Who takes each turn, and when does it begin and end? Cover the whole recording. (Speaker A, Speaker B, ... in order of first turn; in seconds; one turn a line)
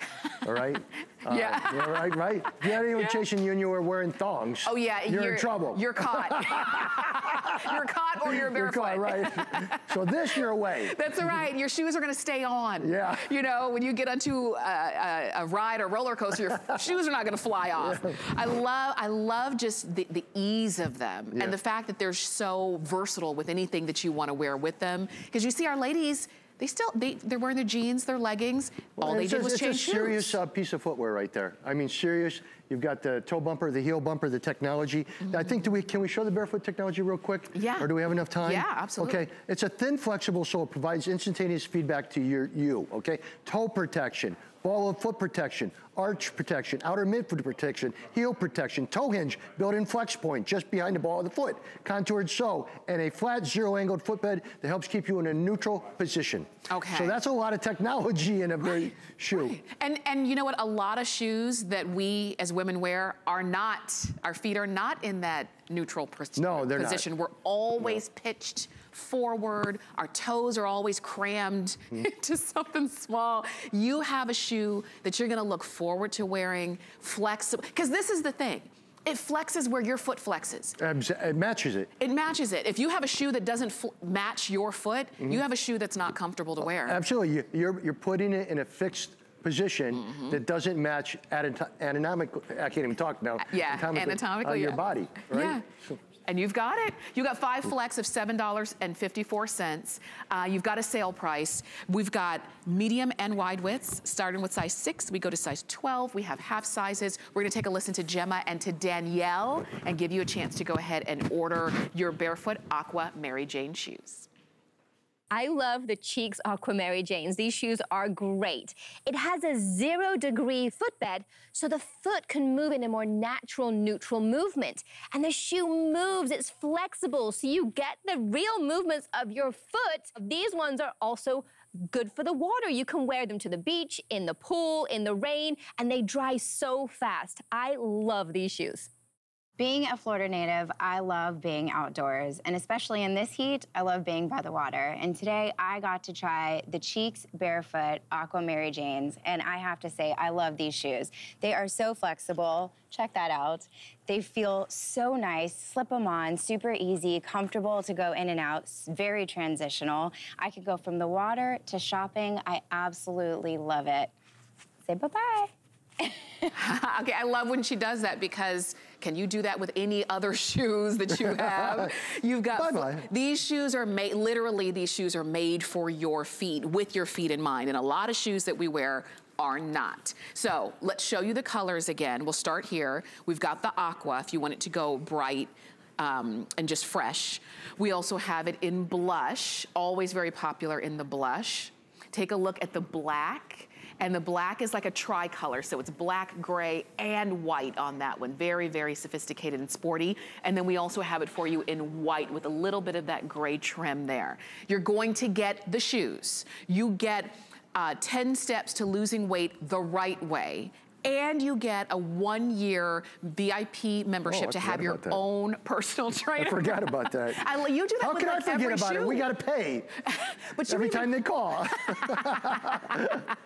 Speaker A: 0.4-11.1
Speaker B: 1.3-2.2
Speaker B: 2.7-3.2
Speaker B: 4.7-9.8
Speaker B: 10.9-30.4
Speaker A: 12.8-13.3
Speaker A: 17.8-18.1
Speaker A: 29.0-59.6
Speaker B: 35.2-35.6
Speaker B: 37.5-37.9
Speaker B: 38.4-39.2
Speaker B: 56.7-57.1
Speaker B: 59.4-80.8
Speaker A: 66.4-67.1
Speaker A: 80.8-81.9
Speaker B: 82.0-87.0
Speaker A: 86.7-96.0
Speaker B: 89.9-90.4
Speaker B: 93.4-95.6
Speaker B: 96.3-114.3
Speaker C: 115.3-138.9
Speaker D: 139.6-164.1
Speaker D: 164.9-166.2
Speaker B: 166.5-219.3
Speaker A: 171.2-171.9
Speaker A: 172.6-173.1
Speaker A: 214.3-215.2
Speaker A: 216.4-220.0
Speaker B: 220.1-221.1
Speaker A: 220.7-223.3
Speaker B: 221.9-223.1